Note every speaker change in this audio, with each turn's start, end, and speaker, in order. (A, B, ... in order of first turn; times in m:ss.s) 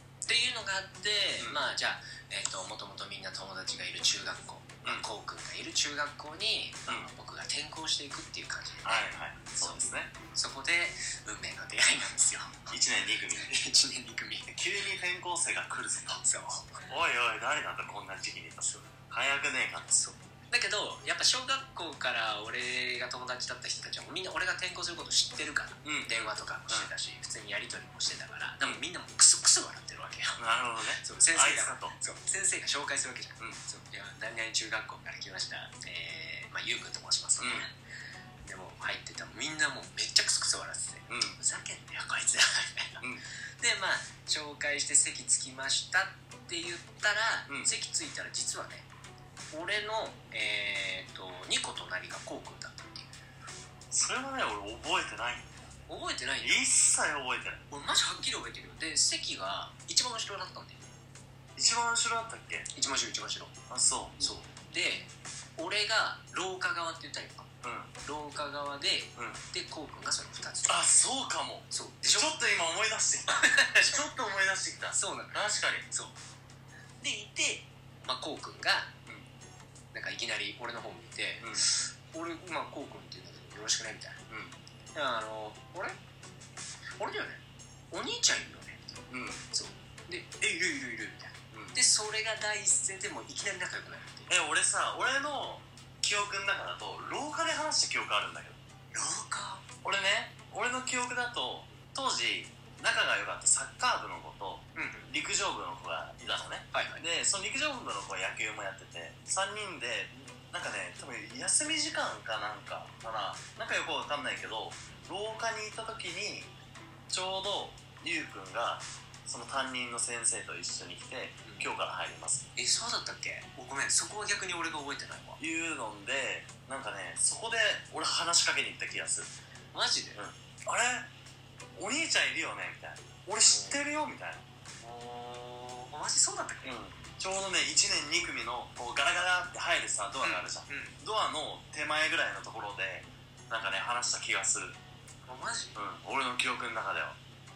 0:00.2-0:12.7 A
0:08.8-0:10.1 B
0:12.7-0:13.5 B
0:13.4-0:14.6 A
0:14.5-0:16.2 B
0:16.2-0:16.8 A
0:16.9-0:20.0 B
0:18.6-0:18.9 A
0:19.9-0:30.4 A
0:25.8-0:26.9 B
0:30.4-0:32.0 B
0:31.0-0:37.7 A
0:37.4-0:37.7 B
0:38.4-0:43.0 A
0:41.1-0:41.4 B
0:43.6-0:48.9 A
0:49.5-0:53.1 A
0:53.9-0:55.7 B
0:55.9-0:56.6 A
0:56.4-0:57.6 B
0:57.7-1:00.8 A
1:01.6-1:02.7 B
1:02.7-1:03.6 A
1:03.7-1:04.3 B
1:04.2-1:07.5 A
1:07.6-1:07.9 B
1:08.0-1:10.8 A
1:10.7-1:15.8 B
1:11.7-1:12.3 A
1:13.3-1:14.0 A
1:14.9-1:16.1 A
1:17.0-1:18.9 A
1:19.9-1:24.2 A
1:21.4-1:21.6 B
1:24.3-1:24.6 B
1:24.9-1:26.0 A
1:27.0-1:34.3 A
1:29.1-1:29.4 B
1:31.5-1:31.8 B
1:34.3-1:38.6 B
1:38.9-1:39.6 A
1:39.8-1:56.5 B
1:44.7-1:45.1 A
1:46.7-1:47.0 A
1:57.1-2:02.5 B
2:01.4-2:01.7 A
2:02.6-2:05.4 A
2:05.4-2:09.3 B
2:09.7-2:10.2 A
2:10.1-2:11.1 B
2:11.8-2:14.4 B
2:13.4-2:13.8 A
2:14.8-2:16.8 A
2:16.6-2:24.8 B
2:20.2-2:21.0 A
2:25.2-2:25.8 A
2:25.7-2:27.2 B